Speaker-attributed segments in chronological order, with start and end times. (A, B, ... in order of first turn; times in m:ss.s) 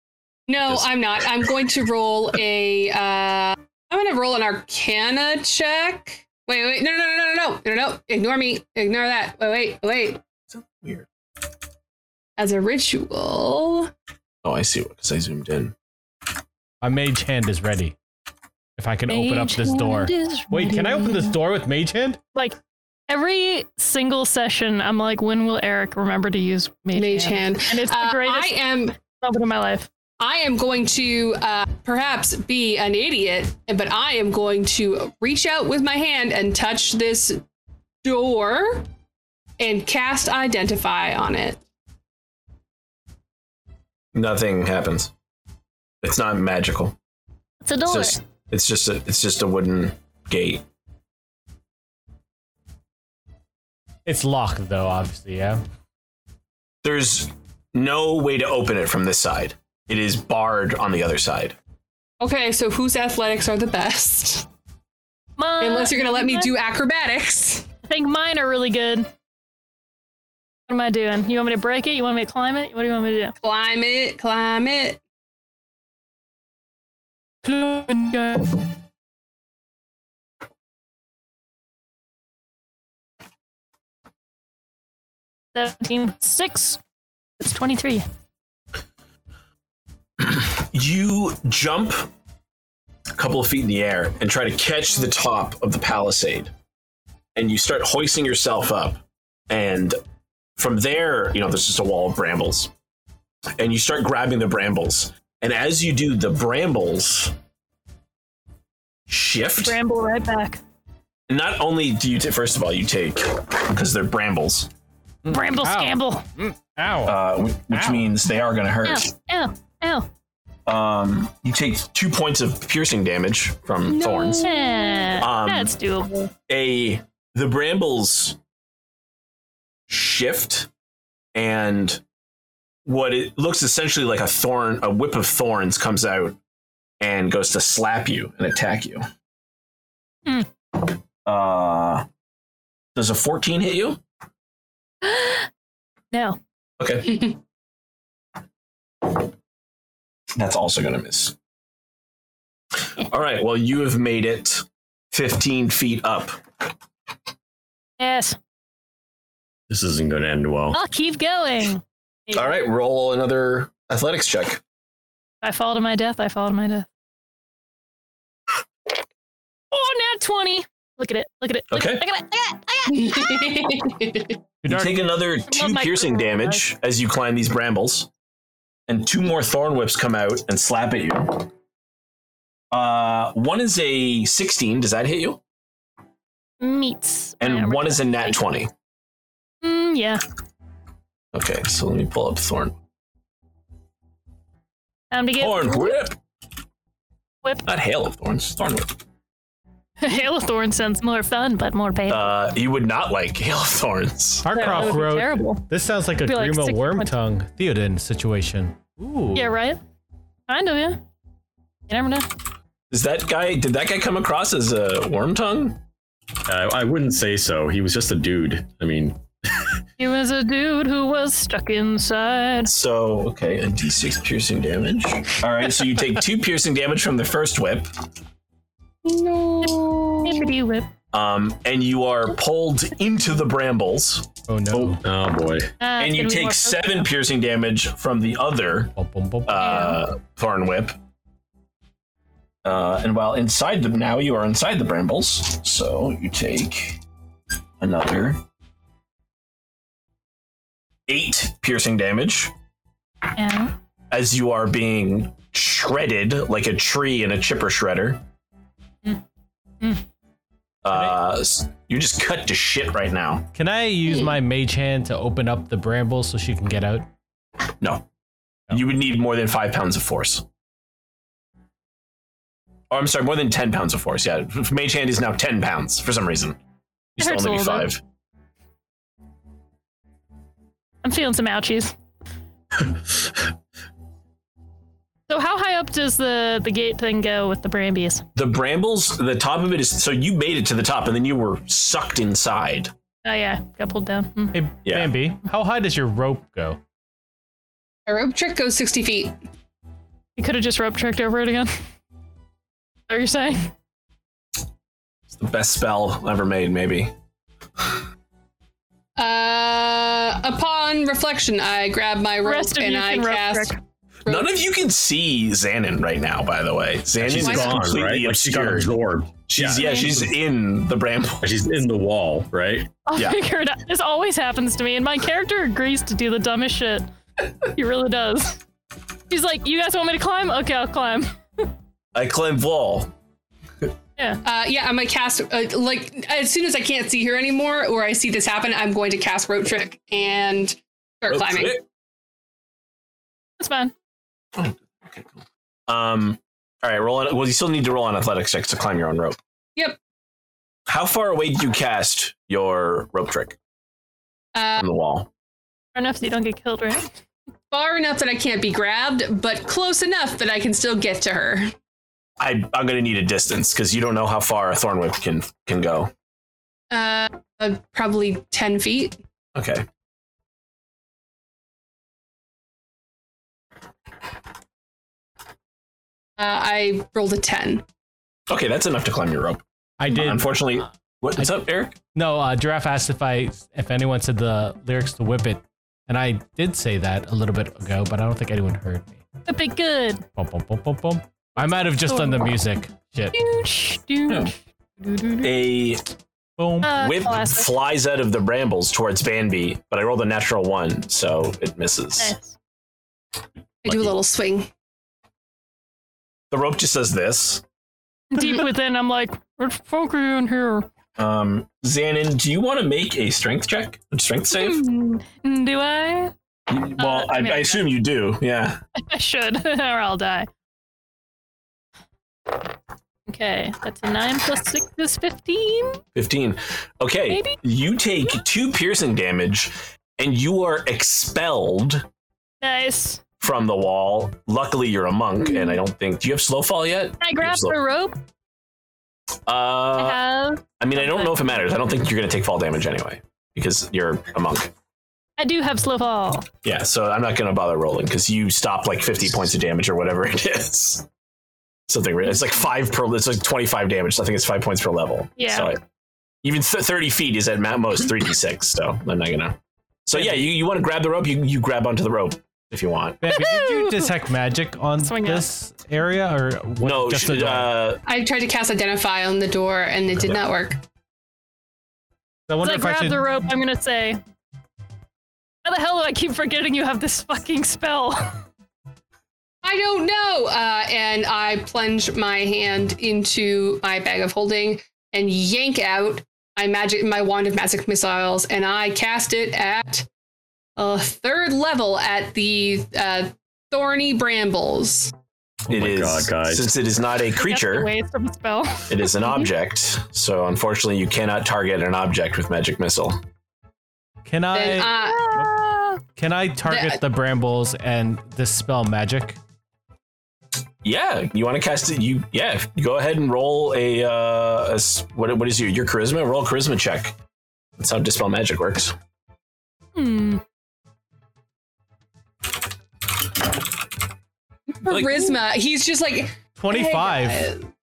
0:00.5-0:10.2 A
0:10.5-0:11.1 B
0:12.4-0:13.9 A
0:14.4-0:15.7 B
0:16.8-0:18.0 C
0:18.8-0:22.2 C
0:19.1-0:21.3 D
0:23.1-0:29.9 D
0:26.9-0:29.0 A
0:30.2-0:37.4 A
0:38.0-0:38.9 A
0:39.6-0:41.6 A
0:44.1-0:45.1 B
0:46.0-0:47.0 B
0:47.6-0:48.2 D
0:47.9-0:50.6 B
0:54.1-0:55.6 C
0:56.8-1:01.6 B
1:02.2-1:04.5 A
1:05.4-1:06.5 D
1:05.6-1:07.7 A
1:07.9-1:09.1 D
1:10.7-1:13.3 D
1:13.4-1:15.0 A
1:17.6-1:18.4 D
1:17.6-1:18.0 C
1:25.5-1:26.8 D
1:27.4-1:28.0 D
1:30.2-1:32.1 B
1:33.2-1:36.5 B
1:37.4-1:40.0 B
1:40.6-1:42.7 B
1:43.6-1:47.4 B
1:49.1-1:49.8 B
1:49.6-1:50.6 D
1:51.3-1:54.7 B
1:55.2-1:57.2 C
1:55.3-1:56.2 D
1:57.0-1:59.1 B
1:57.7-1:58.0 C
1:58.8-2:00.1 D
2:00.7-2:04.5 B
2:03.9-2:05.2 A
2:04.4-2:06.3 D
2:05.2-2:05.7 B
2:06.5-2:08.4 B
2:09.9-2:10.7 B
2:11.4-2:12.0 B
2:12.8-2:16.4 B
2:17.0-2:19.0 B
2:21.3-2:22.1 B
2:23.0-2:24.0 B
2:25.0-2:25.5 D
2:26.1-2:26.4 D
2:26.8-2:27.3 B
2:30.4-2:31.4 B
2:33.0-2:36.4 B
2:38.0-2:38.4 D
2:39.7-2:40.8 E
2:40.7-2:42.6 D
2:42.3-2:44.6 B
2:45.4-2:46.9 D
2:49.7-2:53.7 D
2:51.7-2:52.0 B
2:52.9-2:54.4 A
2:54.6-2:55.0 C
2:54.7-2:58.1 B
2:55.5-2:56.6 D
2:58.9-3:01.5 B
3:02.7-3:05.4 B
3:06.6-3:08.4 D
3:07.4-3:08.7 B
3:09.6-3:10.2 D
3:11.3-3:12.8 B
3:15.1-3:16.0 D
3:15.4-3:16.2 B
3:17.6-3:19.0 B
3:20.0-3:22.3 D
3:22.1-3:24.6 B
3:24.4-3:29.5 C
3:24.5-3:25.6 D
3:26.2-3:27.2 D
3:29.4-3:29.8 D
3:30.5-3:31.0 D
3:31.9-3:32.3 D
3:32.9-3:35.8 B
3:36.5-3:39.8 E
3:40.0-3:42.7 D
3:42.6-3:47.9 B
3:49.0-3:50.5 A
3:49.6-3:50.9 D
3:51.1-3:54.3 B
3:54.5-3:55.0 C
3:54.7-3:55.7 E
3:55.8-3:57.1 D
3:56.0-3:58.9 B
3:59.0-3:59.8 C
3:59.4-4:01.0 B
3:59.6-4:00.0 D
4:02.6-4:07.0 B
4:07.8-4:08.4 B
4:11.1-4:12.5 B
4:13.4-4:13.8 D
4:14.1-4:18.2 B
4:20.8-4:23.5 B
4:23.5-4:27.1 C
4:27.8-4:28.1 B
4:28.7-4:30.4 B
4:32.9-4:36.6 B
4:37.2-4:38.0 B
4:37.2-4:37.9 D
4:41.0-4:41.9 D
4:45.3-4:48.2 D
4:48.4-4:52.9 B
4:53.2-4:54.6 D
4:54.5-4:56.8 C
4:54.8-4:55.1 B
4:58.1-4:59.4 A
5:00.4-5:01.7 D
5:03.1-5:03.7 D
5:05.3-5:07.1 B
5:09.2-5:13.7 A
5:12.4-5:13.8 D
5:14.2-5:14.5 A
5:14.3-5:19.0 B
5:17.2-5:20.3 E
5:17.4-5:17.8 A
5:19.5-5:21.5 B
5:19.8-5:20.2 D
5:21.4-5:22.9 E
5:23.1-5:27.1 D
5:27.6-5:28.6 D
5:29.3-5:31.7 D
5:32.2-5:33.1 B
5:34.4-5:41.8 A
5:41.3-5:41.8 B
5:43.6-5:43.9 D
5:44.6-5:49.4 B
5:50.9-5:53.6 B
5:54.6-5:54.9 A
5:54.8-5:55.3 B
5:56.0-5:57.1 D
5:57.7-6:01.7 A
6:02.4-6:06.1 B
6:06.9-6:09.2 A
6:09.6-6:09.9 B
6:16.4-6:17.8 A
6:18.5-6:22.0 B
6:20.0-6:20.6 C
6:22.1-6:29.2 C
6:29.5-6:30.2 D
6:30.4-6:33.4 C
6:32.0-6:32.5 D
6:33.3-6:35.5 D
6:34.3-6:34.5 B
6:35.4-6:36.0 B
6:36.6-6:37.0 C
6:36.8-6:37.8 D
6:36.9-6:42.4 B
6:42.2-6:42.6 D
6:43.8-6:44.7 A
6:46.5-6:47.6 B
6:48.3-6:50.9 D
6:51.2-6:54.8 B
6:54.5-6:56.3 D
6:56.7-6:58.8 B
6:57.0-6:57.9 D
6:59.0-7:00.5 D
7:03.3-7:06.0 D
7:06.2-7:12.1 B
7:07.3-7:07.6 D
7:12.6-7:13.2 D
7:13.4-7:17.8 B
7:15.5-7:15.8 D
7:17.2-7:18.2 D
7:19.5-7:20.2 B
7:20.0-7:21.5 D
7:20.8-7:24.7 B
7:25.4-7:26.5 D
7:26.6-7:31.1 B
7:31.9-7:35.8 B
7:35.4-7:35.7 D
7:36.4-7:43.4 B
7:43.2-7:47.7 C
7:43.3-7:44.1 D
7:45.0-7:45.5 D
7:46.8-7:48.0 B
7:48.0-7:50.8 A
7:52.5-7:53.2 C
7:52.6-7:54.2 D
7:55.6-7:58.4 D
7:59.6-8:10.1 A
8:10.8-8:15.1 A
8:15.7-8:16.7 E
8:15.7-8:17.9 B
8:17.4-8:19.0 D
8:18.9-8:23.2 B
8:24.3-8:25.5 C
8:24.5-8:25.3 A
8:25.3-8:25.8 D
8:26.1-8:29.4 C
8:26.7-8:27.0 A
8:30.8-8:37.2 B
8:37.8-8:39.0 B
8:40.0-8:40.4 D
8:44.8-8:47.7 A
8:44.9-8:45.3 B
8:46.6-8:47.5 C